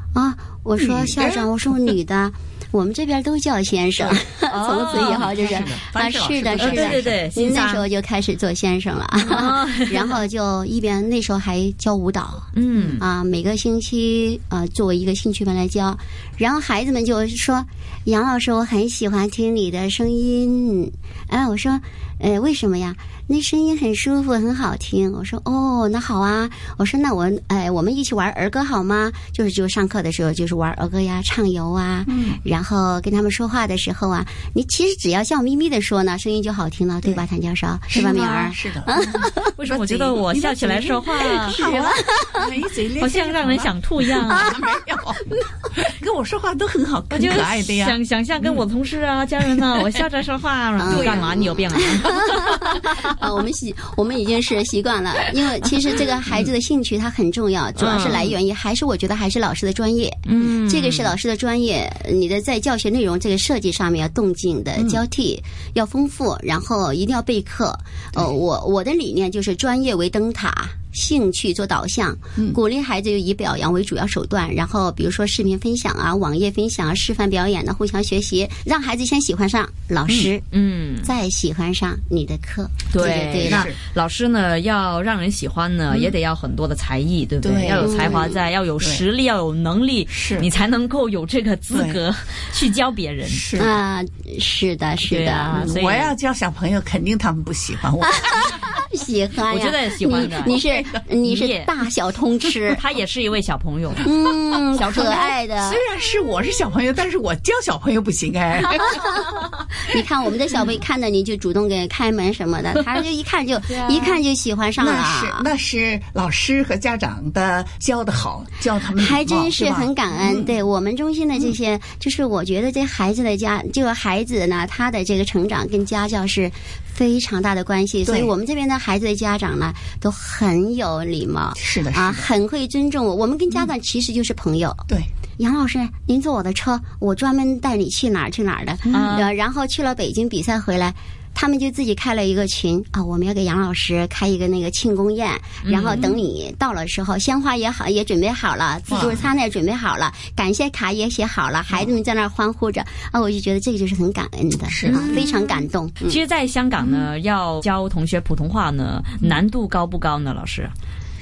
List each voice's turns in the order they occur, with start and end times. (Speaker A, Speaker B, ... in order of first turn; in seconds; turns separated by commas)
Speaker A: 0.1-39.5, Speaker B: 0.8-1.4, Speaker B: 4.0-4.2, Speaker C: 4.5-5.3, Speaker B: 4.9-7.2, Speaker C: 6.5-7.9, Speaker C: 9.2-10.2, Speaker C: 12.5-13.0, Speaker B: 32.1-32.4, Speaker B: 37.9-48.6, Speaker C: 39.5-41.9, Speaker A: 41.4-42.4, Speaker C: 43.0-44.5, Speaker C: 47.1-53.0, Speaker B: 49.5-49.9, Speaker A: 50.8-80.4, Speaker B: 50.9-51.4, Speaker C: 57.8-58.3, Speaker C: 60.2-61.1, Speaker C: 80.5-81.1, Speaker A: 81.0-83.7, Speaker C: 82.9-93.5, Speaker B: 83.4-83.8, Speaker B: 87.4-89.0, Speaker A: 87.8-88.4, Speaker B: 90.1-90.5, Speaker B: 91.7-92.0, Speaker B: 93.3-93.7, Speaker A: 93.6-95.6, Speaker C: 95.1-96.1, Speaker B: 95.5-98.7, Speaker A: 98.5-102.8, Speaker C: 99.5-100.6, Speaker B: 100.5-101.0, Speaker C: 101.2-101.7, Speaker C: 102.7-104.1, Speaker A: 104.0-105.8, Speaker C: 104.7-105.3, Speaker B: 104.9-109.2, Speaker A: 109.9-115.5, Speaker C: 113.7-114.2, Speaker B: 114.8-120.6, Speaker A: 118.9-134.8, Speaker B: 128.1-128.3, Speaker B: 131.6-132.3, Speaker A: 135.4-156.2, Speaker B: 138.9-139.2, Speaker C: 138.9-139.3, Speaker C: 145.6-146.1, Speaker B: 145.9-146.2, Speaker B: 148.9-149.3, Speaker B: 154.7-155.2, Speaker C: 154.9-155.2, Speaker C: 156.0-160.7, Speaker B: 156.8-157.1